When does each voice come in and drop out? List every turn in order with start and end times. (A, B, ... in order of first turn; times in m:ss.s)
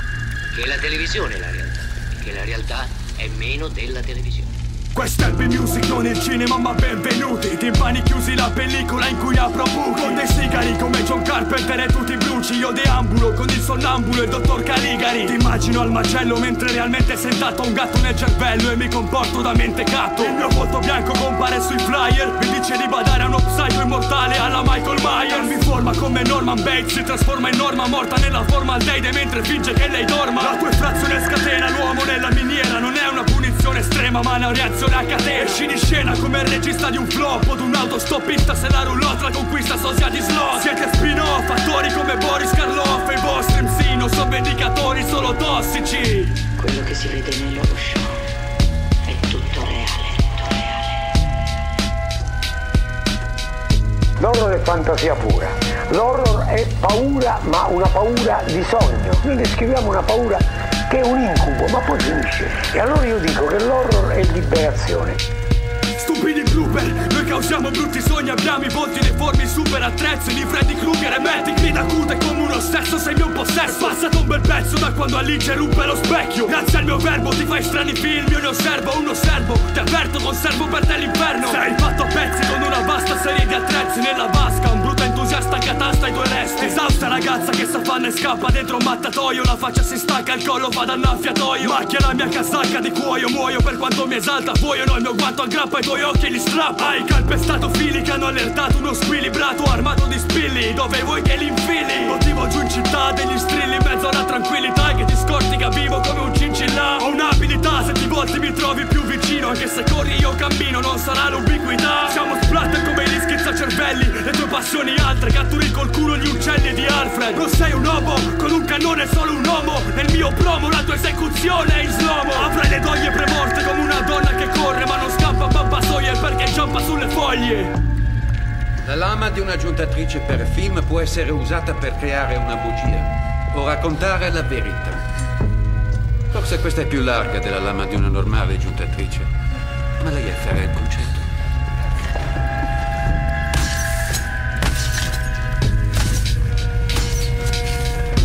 0:00.5-0:04.5 A
0:04.9-0:46.4 B
0:46.6-0:48.3 C
0:49.0-0:51.0 C
0:54.2-1:05.2 D
1:06.0-2:07.8 B
2:08.8-2:15.0 E
2:16.3-2:19.3 E
2:20.0-2:21.2 E